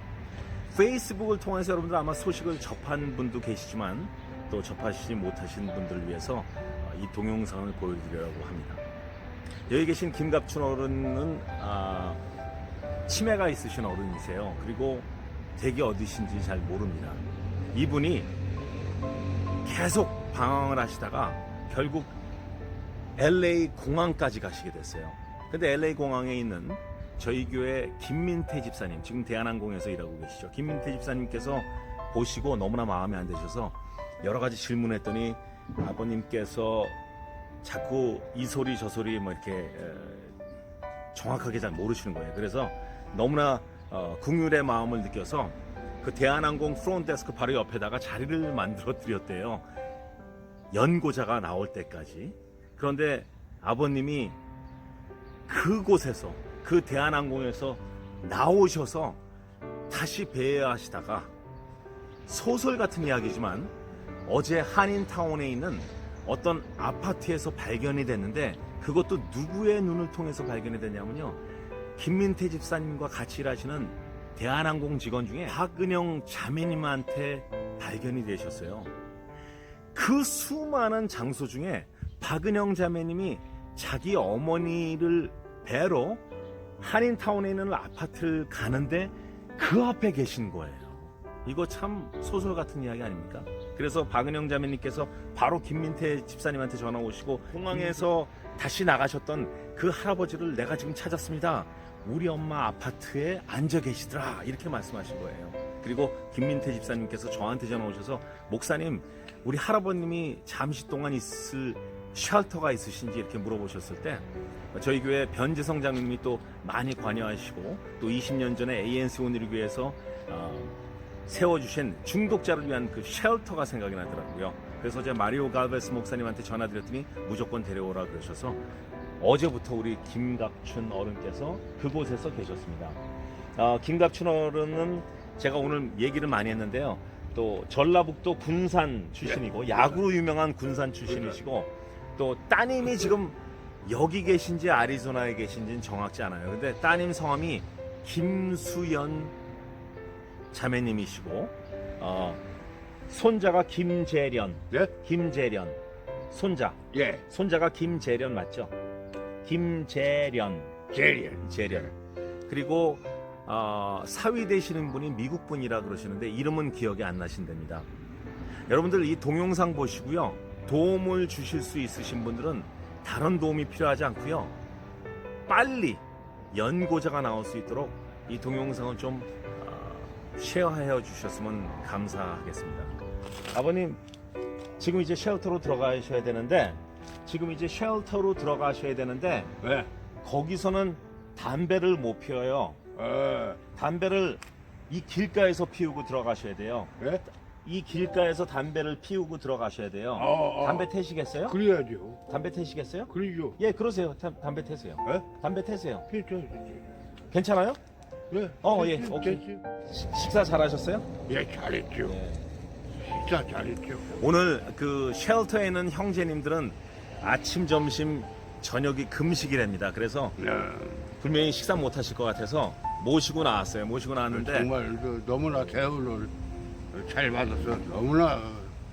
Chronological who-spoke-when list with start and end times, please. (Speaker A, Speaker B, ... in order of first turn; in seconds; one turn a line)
Speaker A: 0.7-8.8
Speaker A: 9.7-12.2
Speaker A: 13.1-18.3
Speaker A: 19.6-22.1
Speaker A: 23.1-37.0
Speaker A: 37.6-40.3
Speaker A: 41.1-49.7
Speaker A: 50.7-54.4
Speaker A: 55.5-59.2
Speaker A: 59.9-61.3
Speaker A: 62.2-63.7
Speaker A: 64.2-71.4
Speaker A: 72.0-78.9
Speaker A: 79.9-86.2
Speaker A: 86.8-128.6
Speaker A: 129.2-133.0
Speaker A: 133.6-149.3
Speaker A: 150.5-152.4
Speaker A: 153.1-155.8
Speaker A: 156.3-158.7
Speaker B: 156.9-157.2
Speaker A: 159.4-160.8
Speaker B: 160.9-161.9
Speaker A: 161.4-161.9
Speaker A: 162.5-167.9
Speaker A: 168.7-174.6
Speaker A: 175.5-183.0
Speaker A: 183.5-184.0
Speaker A: 184.8-189.5
Speaker B: 189.6-189.9
Speaker A: 190.2-192.8
Speaker B: 192.9-193.6
Speaker A: 193.7-196.9
Speaker A: 197.6-201.6
Speaker B: 200.2-200.9
Speaker B: 201.4-202.2
Speaker A: 202.3-206.1
Speaker B: 203.1-203.6
Speaker B: 206.1-206.8
Speaker A: 207.3-207.8
Speaker B: 208.3-209.6
Speaker A: 208.6-211.1
Speaker B: 211.3-212.1
Speaker A: 212.0-212.5
Speaker B: 213.0-214.1
Speaker A: 214.1-220.4
Speaker B: 220.4-221.1
Speaker A: 221.2-224.7
Speaker B: 224.3-226.3
Speaker B: 226.9-228.7